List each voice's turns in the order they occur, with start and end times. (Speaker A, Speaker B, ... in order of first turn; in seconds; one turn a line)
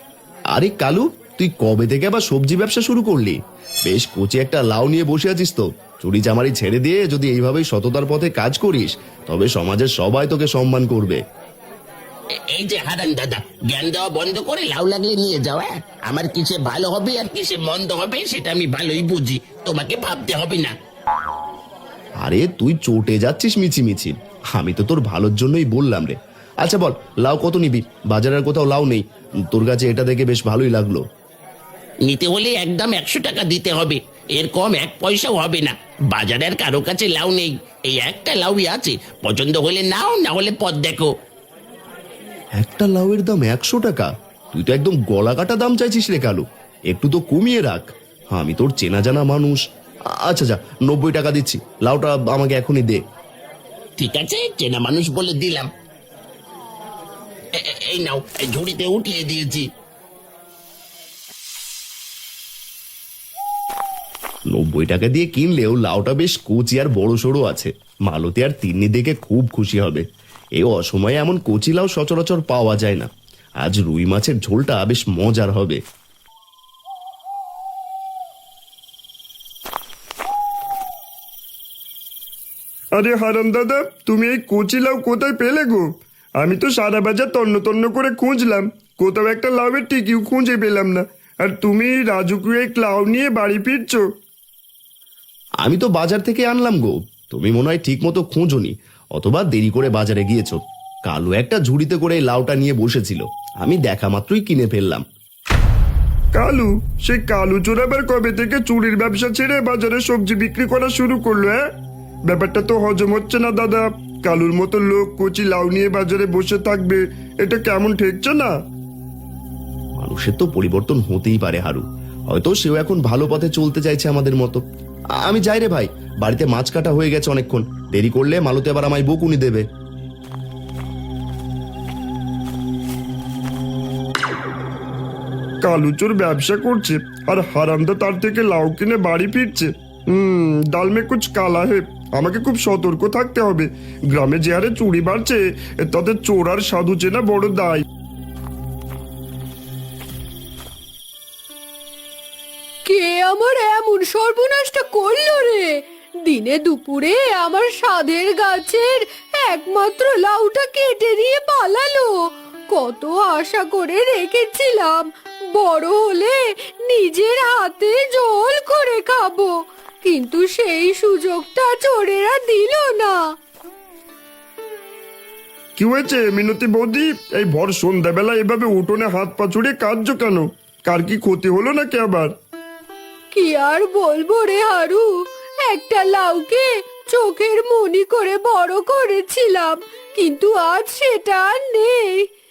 Speaker A: 0.6-11.2
Speaker B: 12.5-20.8
Speaker A: 22.2-31.0
Speaker B: 32.0-41.1
Speaker A: 42.6-49.6
Speaker A: 50.2-53.0
Speaker B: 54.0-55.7
Speaker B: 57.5-59.7
Speaker A: 64.5-70.0
Speaker A: 70.6-73.1
Speaker A: 73.6-75.8
Speaker C: 83.0-85.9
Speaker C: 86.4-94.0
Speaker A: 95.6-105.0
Speaker C: 106.3-111.6
Speaker C: 112.3-118.5
Speaker A: 120.0-124.6
Speaker A: 125.2-129.7
Speaker C: 135.6-147.8
Speaker D: 152.9-155.7
Speaker D: 156.2-162.1
Speaker D: 162.7-165.0
Speaker D: 165.6-169.5
Speaker D: 170.0-173.1
Speaker C: 175.8-182.3
Speaker D: 183.3-185.1
Speaker D: 185.6-192.1